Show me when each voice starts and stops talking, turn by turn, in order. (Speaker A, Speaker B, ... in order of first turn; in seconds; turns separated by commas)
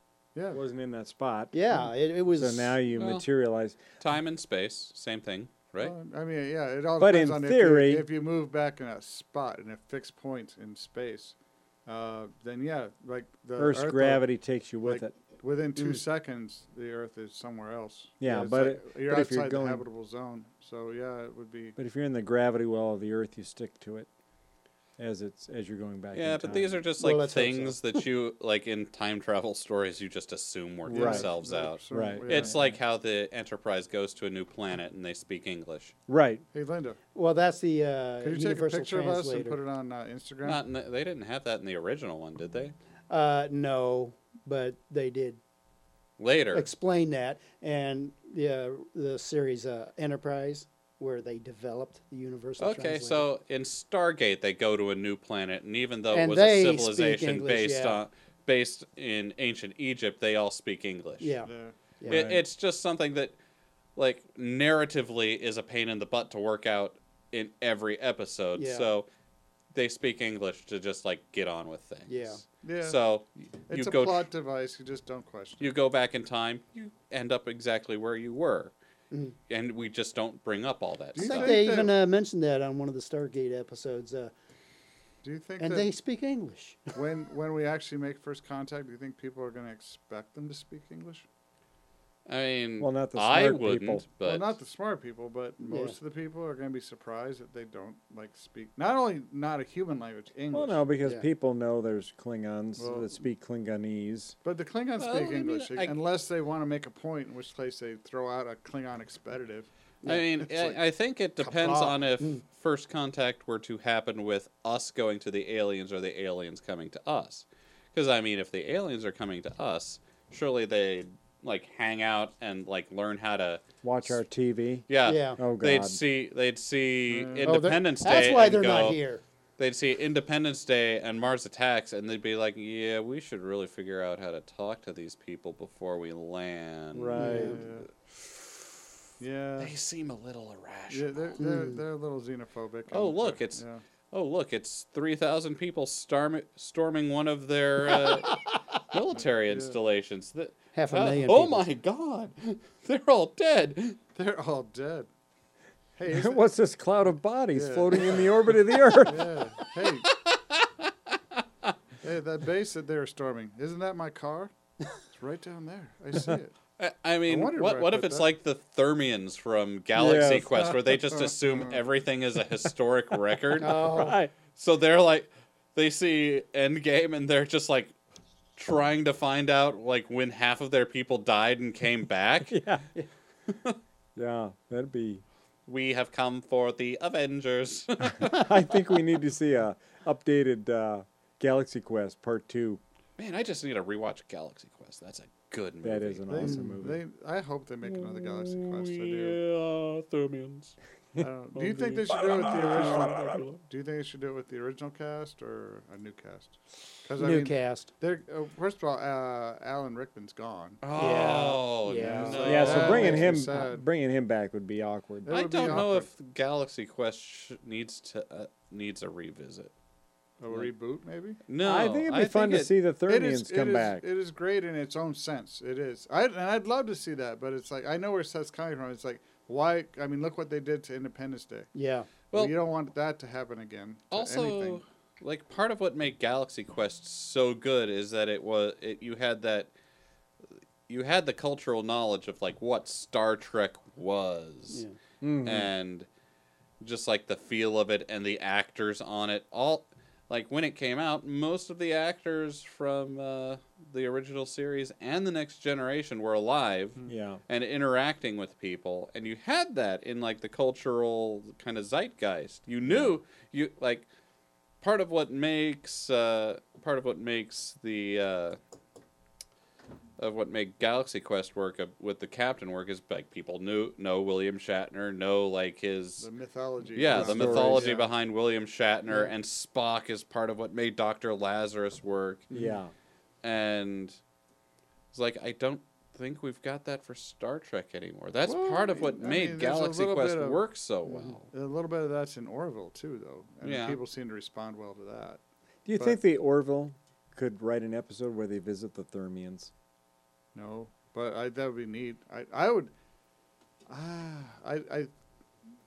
Speaker A: 0.3-0.6, Speaker B: 0.5-3.8, Speaker C: 1.5-2.8, Speaker D: 2.9-3.2, Speaker D: 4.0-5.9, Speaker A: 5.8-11.3, Speaker B: 7.0-8.1, Speaker A: 11.8-14.2, Speaker B: 13.6-15.1, Speaker A: 14.8-21.8, Speaker B: 18.2-19.9, Speaker B: 21.8-24.1, Speaker B: 25.0-26.7, Speaker D: 26.1-35.9, Speaker C: 27.0-28.0, Speaker A: 30.9-32.6, Speaker B: 30.9-31.3, Speaker B: 31.9-32.7, Speaker B: 36.1-36.4, Speaker A: 36.5-37.0, Speaker C: 37.1-39.6, Speaker A: 38.2-40.6, Speaker D: 40.4-42.7, Speaker C: 43.1-45.4, Speaker D: 46.2-46.7, Speaker C: 46.5-53.2, Speaker D: 52.6-61.4, Speaker C: 56.1-58.0, Speaker C: 61.2-62.3, Speaker A: 61.4-61.7, Speaker B: 62.1-62.4, Speaker D: 62.1-63.4, Speaker D: 64.0-69.1, Speaker C: 68.6-68.9, Speaker D: 69.7-74.3, Speaker C: 72.1-72.4, Speaker A: 72.6-73.0, Speaker A: 73.7-75.7, Speaker D: 75.6-78.7, Speaker C: 79.1-79.3, Speaker D: 79.5-81.6, Speaker A: 81.1-81.9, Speaker C: 81.2-84.3, Speaker A: 85.2-85.9, Speaker C: 85.6-87.0, Speaker A: 86.9-91.2, Speaker D: 92.2-94.5, Speaker B: 92.8-94.0, Speaker A: 94.2-100.8, Speaker C: 95.6-96.0, Speaker B: 100.5-104.3, Speaker A: 102.8-103.1, Speaker A: 104.4-109.7, Speaker D: 105.0-106.0, Speaker D: 110.0-124.2, Speaker A: 110.4-110.8, Speaker A: 111.4-112.0, Speaker B: 123.8-124.8, Speaker D: 124.9-129.0, Speaker C: 125.0-125.4, Speaker B: 125.4-126.0, Speaker A: 127.1-127.6, Speaker C: 127.4-129.2, Speaker D: 129.6-137.6, Speaker B: 136.9-137.6, Speaker C: 137.2-137.6, Speaker A: 137.2-137.9, Speaker D: 138.1-138.8, Speaker A: 139.2-139.7, Speaker D: 139.6-141.4, Speaker A: 140.9-143.8, Speaker C: 141.4-141.8, Speaker D: 142.9-154.0, Speaker A: 149.2-149.8, Speaker C: 150.7-151.7, Speaker A: 154.1-155.1, Speaker A: 156.0-156.4, Speaker B: 156.1-159.3, Speaker A: 157.5-158.3, Speaker A: 159.0-160.1, Speaker D: 160.0-161.7, Speaker A: 162.0-164.5, Speaker A: 165.1-166.5, Speaker D: 166.8-173.9, Speaker A: 167.3-168.3, Speaker B: 169.9-170.7, Speaker A: 170.3-171.8, Speaker C: 173.6-174.2, Speaker B: 173.7-174.3, Speaker D: 174.5-177.9, Speaker D: 178.6-182.6, Speaker B: 182.5-182.9, Speaker D: 183.5-183.8, Speaker B: 184.2-185.2, Speaker D: 185.7-188.7, Speaker B: 188.0-192.8, Speaker D: 193.2-196.3, Speaker B: 195.8-197.0, Speaker A: 196.3-199.4, Speaker C: 196.3-196.8, Speaker D: 197.9-200.8, Speaker A: 201.2-210.8, Speaker D: 201.5-203.6, Speaker C: 207.2-207.9, Speaker D: 210.8-213.3, Speaker C: 210.9-213.6, Speaker A: 212.0-213.8, Speaker B: 212.4-215.8, Speaker A: 215.2-216.1, Speaker D: 215.3-219.7, Speaker A: 220.4-221.4, Speaker D: 221.5-222.7, Speaker B: 221.6-224.0, Speaker A: 223.1-231.7, Speaker C: 231.7-232.1, Speaker A: 232.3-234.8, Speaker D: 234.1-239.7, Speaker D: 240.9-244.8, Speaker C: 244.7-244.9, Speaker B: 245.2-245.7, Speaker D: 245.4-246.1, Speaker D: 246.8-264.1, Speaker B: 257.1-257.4, Speaker B: 262.9-263.1, Speaker D: 264.8-268.6, Speaker D: 270.2-276.3, Speaker A: 276.2-278.1, Speaker D: 276.9-282.5, Speaker B: 277.1-278.0, Speaker A: 282.5-282.8, Speaker B: 282.5-282.9, Speaker D: 283.4-284.2, Speaker D: 285.1-291.5, Speaker A: 288.4-290.6, Speaker A: 291.5-295.4, Speaker D: 293.6-294.0, Speaker B: 295.8-299.7, Speaker A: 300.5-302.9, Speaker A: 303.9-305.1